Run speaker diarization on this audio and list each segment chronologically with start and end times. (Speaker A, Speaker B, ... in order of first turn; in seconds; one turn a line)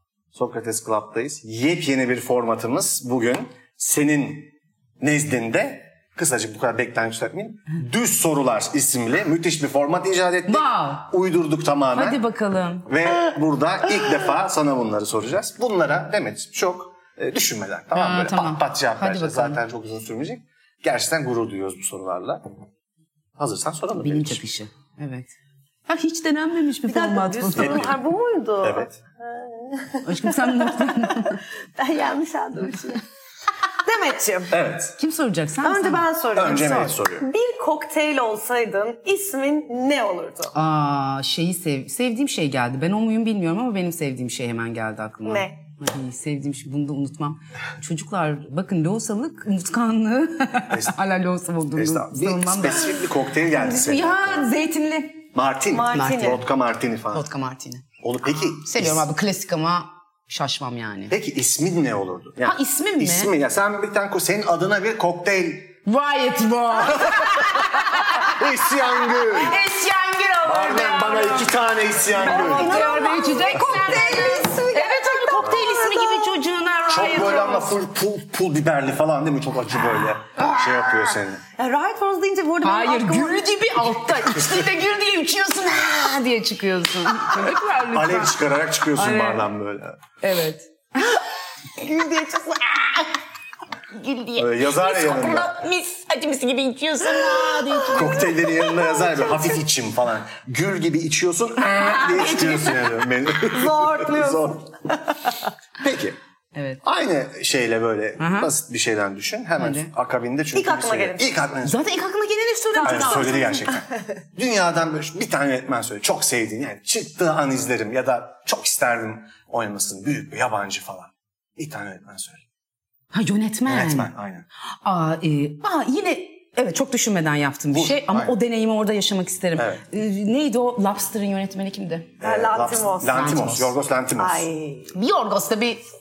Speaker A: 0.3-12.2
Speaker B: 10.5-11.1
Speaker B: 11.9-12.9
Speaker A: 12.8-22.4
Speaker B: 17.9-19.6
Speaker A: 23.4-24.4
Speaker B: 24.0-25.3
Speaker B: 25.9-27.9
Speaker C: 26.9-33.0
Speaker A: 27.5-28.0
Speaker A: 28.6-28.9
Speaker B: 30.0-31.4
Speaker C: 33.8-34.6
Speaker A: 34.5-35.0
Speaker B: 35.0-36.9
Speaker C: 35.6-40.5
Speaker A: 36.3-37.3
Speaker B: 40.5-55.2
Speaker C: 45.2-45.6
Speaker A: 50.7-51.0
Speaker A: 51.7-54.5
Speaker A: 55.3-57.2
Speaker C: 55.7-56.4
Speaker B: 55.9-56.4
Speaker B: 57.1-57.8
Speaker A: 58.0-59.1
Speaker B: 58.6-61.1
Speaker A: 61.1-65.8
Speaker B: 62.4-63.3
Speaker B: 65.8-68.4
Speaker A: 66.8-69.6
Speaker B: 69.0-71.6
Speaker A: 70.4-73.0
Speaker C: 72.1-76.3
Speaker B: 72.1-77.8
Speaker A: 76.9-81.4
Speaker B: 79.9-80.9
Speaker C: 81.6-83.6
Speaker B: 82.6-88.4
Speaker A: 87.8-90.0
Speaker B: 88.9-89.5
Speaker B: 90.2-91.2
Speaker C: 91.8-93.1
Speaker B: 93.9-98.4
Speaker A: 94.4-95.5
Speaker C: 97.2-99.6
Speaker A: 97.9-104.7
Speaker B: 101.6-102.9
Speaker C: 103.4-105.3
Speaker A: 105.8-106.2
Speaker B: 106.5-106.8
Speaker A: 106.8-111.8
Speaker B: 108.2-108.5
Speaker B: 109.6-109.9
Speaker C: 110.5-111.3
Speaker B: 111.6-113.6
Speaker C: 112.7-113.8
Speaker A: 112.8-122.4
Speaker B: 123.1-124.1
Speaker A: 123.7-124.5
Speaker B: 124.8-132.1
Speaker A: 127.7-128.3
Speaker A: 129.5-129.8
Speaker C: 132.2-133.3
Speaker A: 132.2-134.5
Speaker B: 133.0-133.7
Speaker C: 134.2-134.9
Speaker B: 134.9-135.8